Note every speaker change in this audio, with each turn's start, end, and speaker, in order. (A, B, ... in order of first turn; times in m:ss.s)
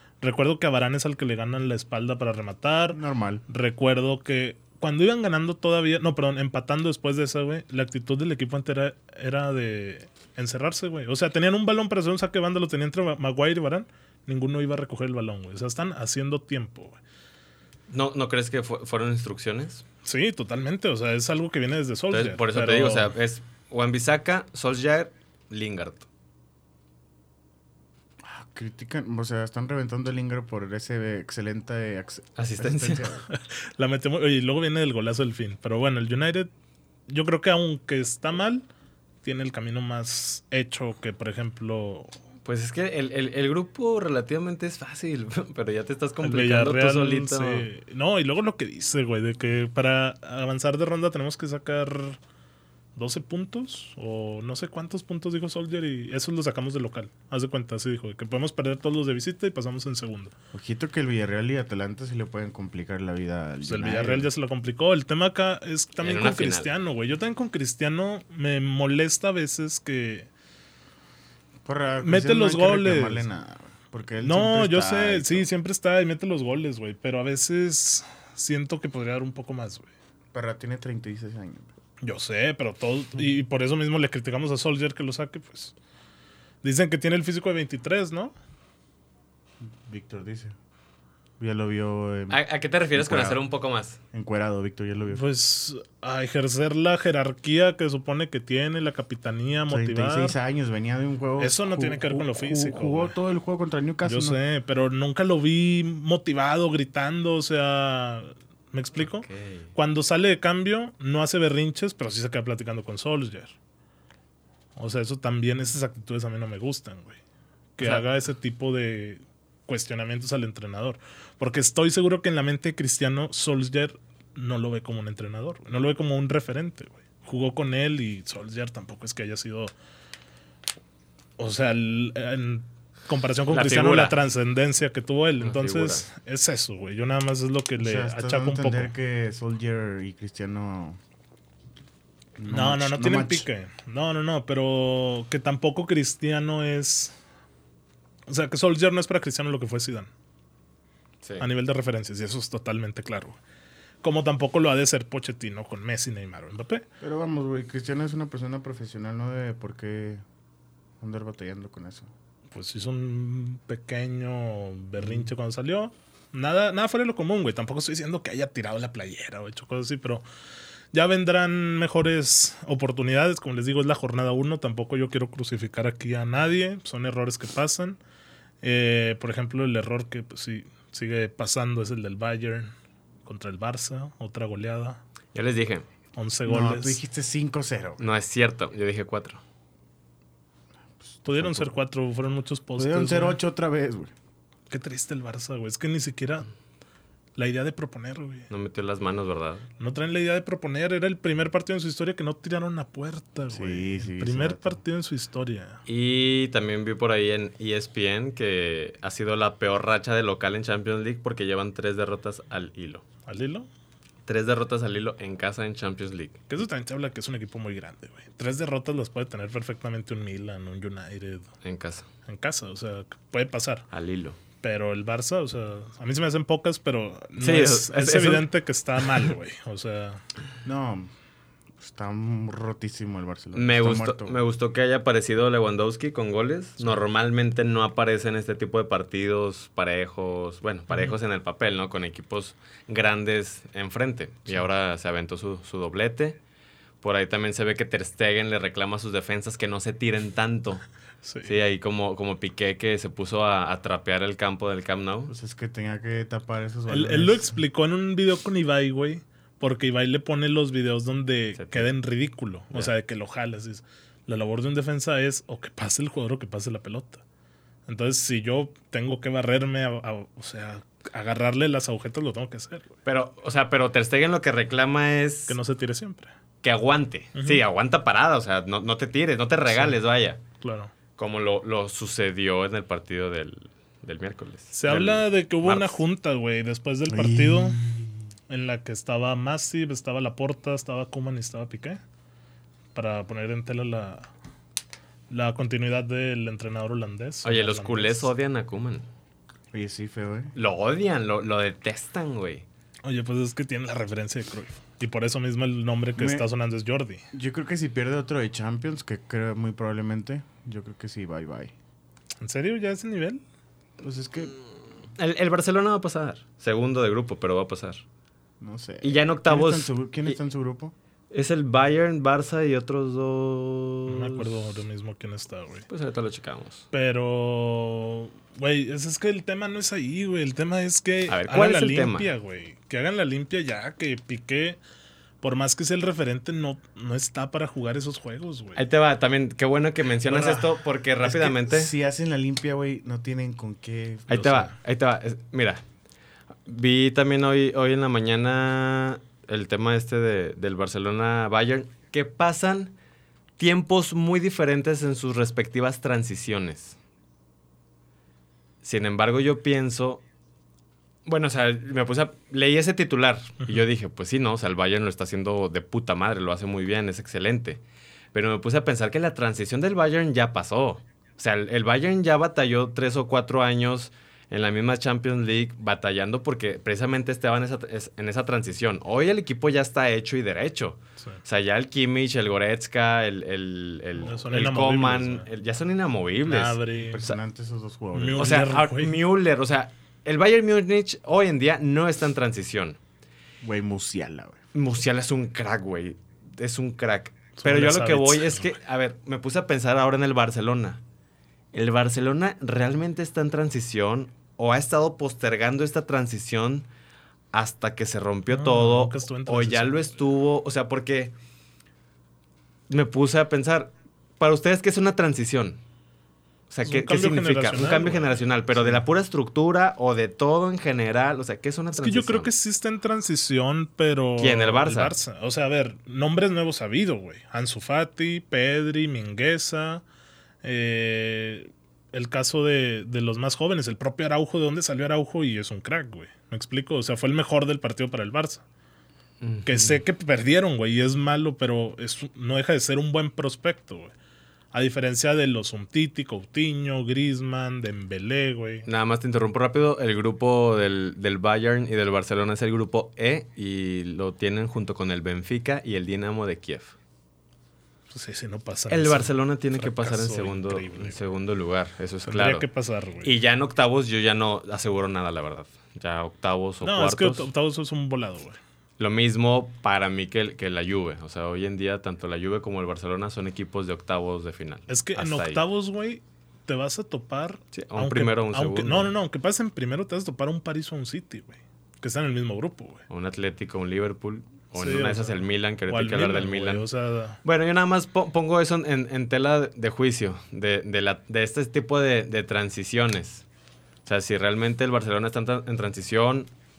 0:00.2-0:17.0 A
0:02.9-0:03.4 B
0:17.9-0:19.8 C
0:20.0-0:23.1 A
0:22.1-0:26.0 C
0:28.2-0:33.2 B
0:32.4-0:33.1 C
0:33.3-0:36.5 A
0:37.1-0:38.6 A
0:39.2-0:42.1 A
0:42.4-0:47.7 C
0:46.2-0:52.2 A
0:52.9-1:00.3 A
1:00.5-1:04.3 B
1:03.6-1:10.3 A
1:06.0-1:06.7 C
1:11.6-1:15.5 B
1:12.0-1:13.2 A
1:14.2-1:19.9 A
1:20.3-1:21.7 B
1:22.0-1:25.7 A
1:26.6-1:28.3 A
1:29.6-1:30.5 B
1:31.4-1:32.4 B
1:32.3-1:34.0 C
1:32.9-1:33.4 B
1:34.1-1:35.2 B
1:35.1-1:40.3 A
1:39.7-1:44.4 B
1:41.4-1:43.1 A
1:44.0-1:53.5 A
1:49.0-1:49.7 C
1:54.8-1:57.2 A
1:57.8-2:09.7 A
1:57.8-1:58.0 C
2:11.4-2:18.9 A
2:13.5-2:14.2 C
2:15.4-2:16.0 C
2:17.8-2:21.0 B
2:22.4-2:23.4 B
2:22.5-2:27.1 A
2:28.3-2:30.1 A
2:31.2-2:31.5 C
2:31.4-2:33.4 A
2:34.0-2:36.8 A
2:37.0-2:40.2 B
2:41.0-2:42.1 B
2:42.5-2:50.2 A
2:50.9-2:58.0 A
2:58.6-3:02.7 A
3:03.2-3:05.0 A
3:05.3-3:05.8 C
3:06.1-3:07.0 A
3:06.5-3:08.0 B
3:08.0-3:09.4 C
3:11.0-3:11.7 B
3:11.2-3:13.4 A
3:12.8-3:14.1 B
3:14.7-3:16.5 A
3:17.4-3:18.5 A
3:18.5-3:19.6 C
3:19.8-3:25.8 A
3:23.5-3:24.8 B
3:25.9-3:33.0 C
3:33.3-3:33.7 A
3:34.2-3:36.4 C
3:36.5-3:41.5 A
3:41.6-3:42.1 C
3:42.2-3:43.9 A
3:43.9-3:44.4 C
3:44.6-3:50.2 A
3:47.4-3:48.5 C
3:50.6-3:51.1 B
3:51.8-3:54.4 B
3:53.5-4:06.4 C
4:07.0-4:10.8 C
4:11.2-4:11.5 A
4:11.4-4:15.3 C
4:15.3-4:17.6 B
4:16.9-4:27.2 A
4:21.6-4:21.9 C
4:27.9-4:32.9 A
4:33.0-4:35.6 C
4:35.5-4:36.3 A
4:36.6-4:40.4 C
4:37.3-4:37.6 A
4:39.7-4:40.0 A
4:40.6-4:40.9 A
4:41.2-4:46.0 C
4:44.7-4:47.8 A
4:47.1-4:48.1 B
4:48.5-4:52.0 A
4:52.9-4:54.3 A
4:55.3-4:58.3 A
4:57.4-4:59.0 C
4:59.7-5:00.5 B
5:00.5-5:02.6 C
5:03.0-5:07.2 A
5:06.2-5:06.4 B
5:07.3-5:11.7 B
5:12.4-5:13.4 A
5:14.0-5:14.6 B
5:15.2-5:18.0 C
5:18.6-5:20.9 B
5:19.0-5:20.4 C
5:21.3-5:24.8 C
5:24.1-5:25.9 A
5:25.9-5:26.8 C
5:26.9-5:34.8 A
5:31.3-5:32.3 C
5:35.4-5:38.8 A
5:38.8-5:41.9 C
5:40.3-5:40.7 B
5:41.2-5:44.5 B
5:44.3-5:45.8 C
5:44.4-5:44.7 A
5:46.6-5:52.9 C
5:53.6-5:57.0 C
5:58.8-6:00.2 C
6:01.2-6:07.8 C
6:08.3-6:27.3 C
6:24.2-6:25.5 A
6:26.4-6:27.3 A
6:27.0-6:28.7 B
6:28.1-6:29.2 A
6:28.4-6:33.0 C
6:33.6-6:34.6 B
6:34.7-6:41.0 C
6:37.6-6:38.7 A
6:41.7-6:46.9 C
6:47.5-6:51.3 C
6:48.5-6:50.1 A
6:52.9-6:55.8 C
6:56.7-7:02.5 C
6:56.8-6:58.4 A
7:01.9-7:10.0 A
7:04.4-7:05.1 C
7:10.6-7:18.6 A
7:19.4-7:20.0 C
7:19.6-7:24.1 A
7:24.7-7:28.9 A
7:28.8-7:36.9 C
7:38.1-7:41.2 A
7:38.9-7:42.6 C
7:42.2-7:43.3 A
7:43.2-7:47.5 C
7:46.8-7:48.6 A
7:49.0-7:55.6 C
7:54.9-8:03.0 A
7:57.7-7:59.1 C
8:03.1-8:06.8 C
8:04.8-8:07.4 A
8:07.4-8:13.4 C
8:14.0-8:16.5 C